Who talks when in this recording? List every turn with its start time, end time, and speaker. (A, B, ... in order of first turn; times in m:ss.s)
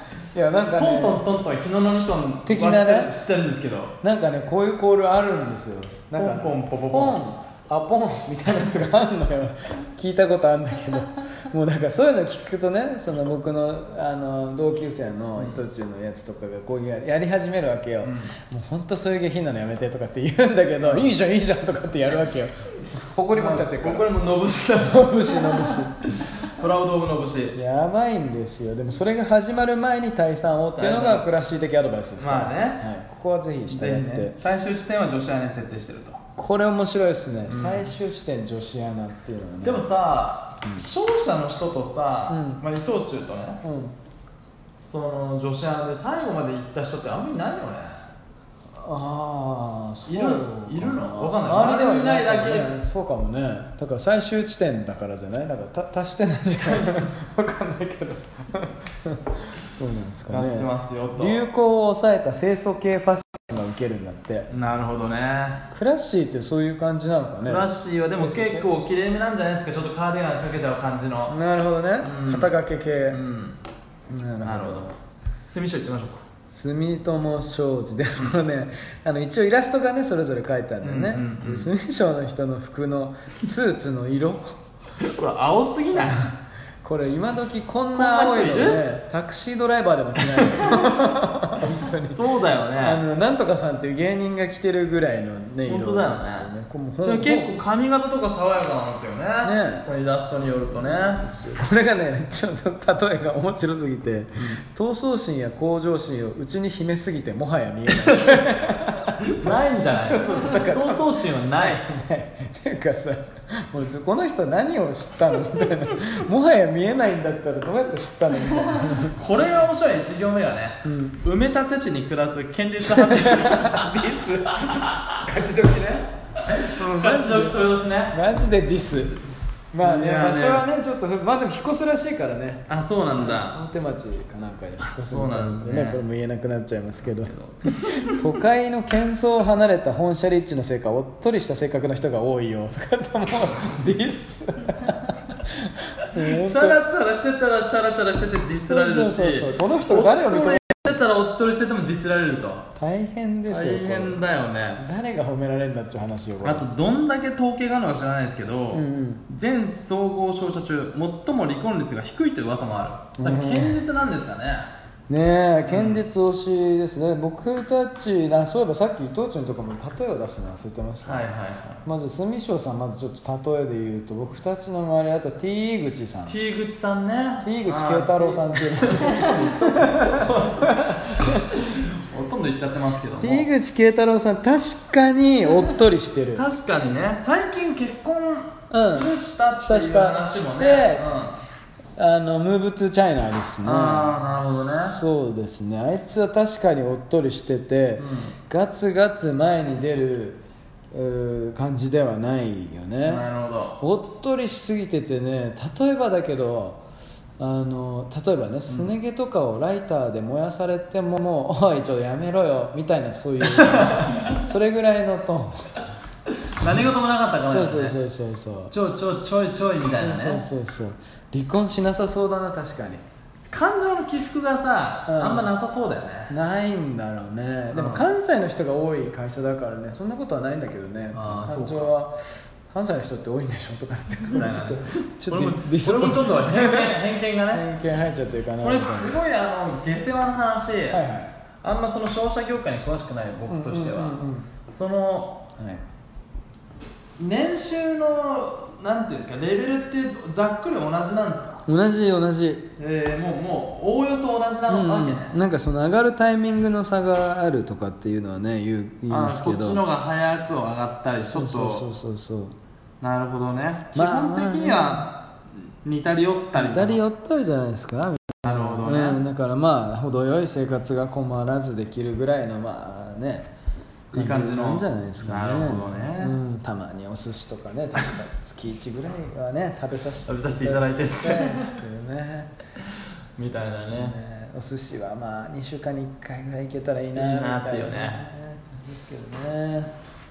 0:00.3-0:01.2 A
0:00.7-0:03.9 B
0:02.4-0:03.1 A
0:04.0-0:24.1 A
0:06.2-0:07.2 B
0:15.4-0:15.6 B
0:18.0-0:18.3 B
0:20.8-0:21.1 B
0:23.3-0:27.6 B
0:24.7-0:26.0 A
0:27.5-0:34.4 A
0:30.8-0:31.3 B
0:32.2-0:32.8 B
0:33.7-0:36.2 B
0:36.4-0:39.8 A
0:37.5-0:37.9 B
0:39.6-0:43.6 B
0:42.3-0:42.6 A
0:43.6-0:43.9 A
0:44.8-0:48.1 B
0:48.7-1:04.5 A
0:50.1-0:52.7 B
0:56.6-0:57.1 B
1:00.3-1:01.4 B
1:04.5-1:05.6 B
1:05.7-1:08.7 A
1:07.4-1:11.4 B
1:11.3-1:13.2 A
1:12.0-1:12.5 B
1:13.1-1:13.6 B
1:14.1-1:14.9 A
1:14.4-1:16.2 B
1:16.5-1:24.6 A
1:20.8-1:21.7 B
1:25.0-1:26.3 B
1:26.0-1:32.2 A
1:27.9-1:28.8 B
1:30.4-1:30.8 B
1:32.0-1:33.0 B
1:32.8-1:37.5 A
1:35.6-1:36.5 B
1:37.0-1:41.2 B
1:39.4-1:39.9 A
1:40.8-1:59.2 A
1:47.9-1:48.6 B
1:49.2-1:51.8 B
1:59.1-2:04.0 B
2:00.8-2:01.2 A
2:02.8-2:26.8 A
2:04.7-2:05.2 B
2:06.4-2:08.2 B
2:09.8-2:10.6 B
2:12.7-2:13.6 B
2:14.9-2:16.0 B
2:17.0-2:18.2 B
2:26.0-2:32.6 B
2:28.5-2:31.0 A
2:32.8-2:34.2 A
2:33.5-2:34.8 B
2:34.8-2:36.6 A
2:36.4-2:44.7 B
2:38.7-2:39.2 A
2:43.2-2:43.8 A
2:45.1-2:51.3 A
2:45.7-2:46.0 B
2:51.0-2:51.8 B
2:51.8-2:56.4 A
2:56.3-3:03.5 B
2:57.4-3:01.4 A
3:03.2-3:06.4 A
3:06.3-3:11.4 B
3:08.7-3:11.0 A
3:12.0-3:20.4 A
3:13.6-3:15.0 B
3:18.0-3:18.4 B
3:20.9-3:23.3 A
3:23.0-3:23.8 B
3:23.8-3:26.8 A
3:27.4-3:35.8 A
3:33.4-3:34.4 B
3:36.3-3:38.0 B
3:37.4-3:38.7 A
3:38.7-3:40.4 B
3:39.9-3:43.0 A
3:43.5-3:46.3 B
3:45.1-3:45.5 A
3:46.3-3:59.1 A
3:47.7-3:48.0 B
3:51.1-3:51.9 B
3:54.3-3:57.6 B
3:58.6-4:01.0 B
4:00.9-4:01.3 A
4:01.6-4:05.5 B
4:03.5-4:04.5 A
4:05.6-4:05.8 A
4:07.2-4:11.6 B
4:11.6-4:12.7 A
4:12.8-4:15.3 B
4:14.7-4:19.8 A
4:19.1-4:21.9 B
4:21.2-4:22.5 A
4:23.0-4:27.0 B
4:23.9-4:25.0 A
4:26.5-4:33.5 A
4:28.4-4:29.2 B
4:34.1-4:36.4 B
4:34.1-4:42.5 A
4:40.2-4:41.8 B
4:42.8-4:44.2 B
4:43.4-4:49.9 A
4:47.1-4:48.2 B